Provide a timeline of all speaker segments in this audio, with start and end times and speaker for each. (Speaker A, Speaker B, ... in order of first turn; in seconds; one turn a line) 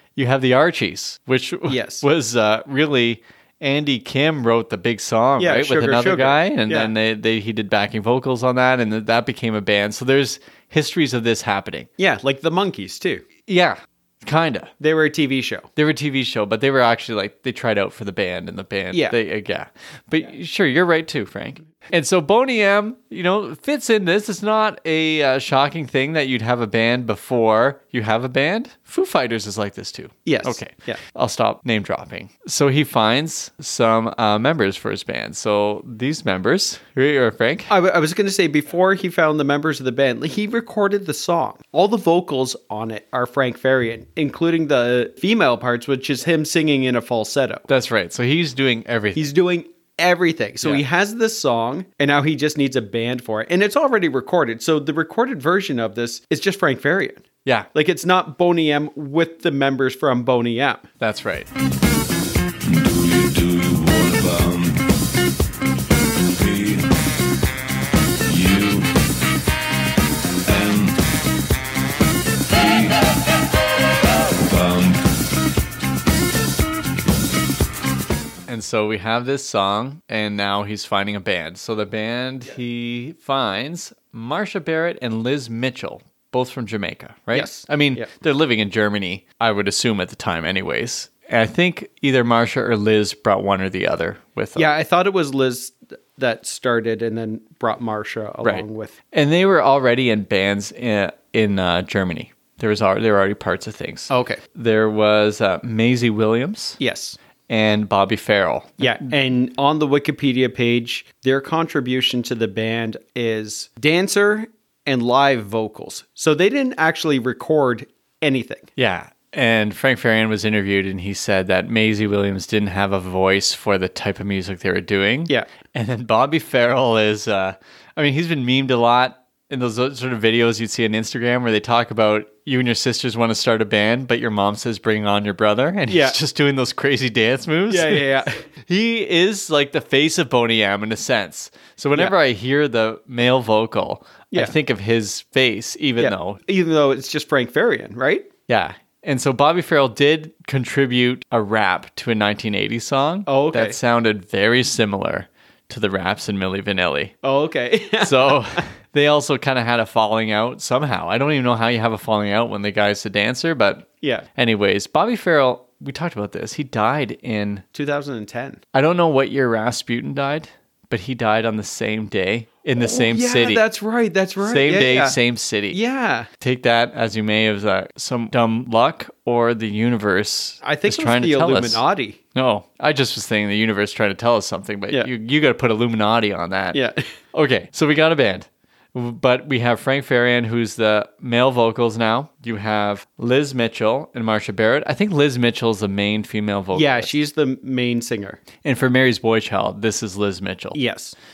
Speaker A: 0.2-11.9
Speaker B: 1.7-2.0
Speaker B: 5.4-6.9
Speaker B: 12.0-13.2
Speaker A: 13.5-14.7
Speaker B: 14.8-15.7
Speaker A: 15.8-37.7
Speaker B: 18.9-19.2
Speaker B: 30.3-31.0
Speaker B: 37.7-47.7
Speaker A: 47.7-49.3
Speaker B: 49.1-60.9
Speaker A: 61.0-61.5
Speaker C: 62.6-64.8
Speaker C: 66.2-66.9
Speaker C: 68.3-68.9
Speaker C: 70.5-71.0
Speaker C: 72.5-73.0
Speaker C: 74.3-75.1
Speaker A: 78.5-94.7
Speaker B: 87.3-88.1
Speaker B: 94.6-99.0
Speaker A: 98.4-106.8
Speaker B: 104.1-104.4
Speaker B: 106.8-107.2
Speaker A: 107.5-109.1
Speaker B: 108.8-118.7
Speaker A: 118.8-146.4
Speaker B: 135.9-136.2
Speaker B: 137.7-138.4
Speaker B: 146.0-148.3
Speaker A: 148.5-157.1
Speaker B: 153.3-153.8
Speaker B: 157.2-158.6
Speaker A: 158.0-167.6
Speaker B: 167.7-168.6
Speaker A: 168.7-173.6
Speaker B: 172.8-175.2
Speaker A: 174.4-175.8
Speaker B: 175.7-176.3
Speaker A: 176.4-186.8
Speaker B: 180.6-182.2
Speaker B: 186.7-187.1
Speaker A: 187.3-197.1
Speaker B: 196.7-198.4
Speaker A: 198.6-200.8
Speaker B: 200.7-201.2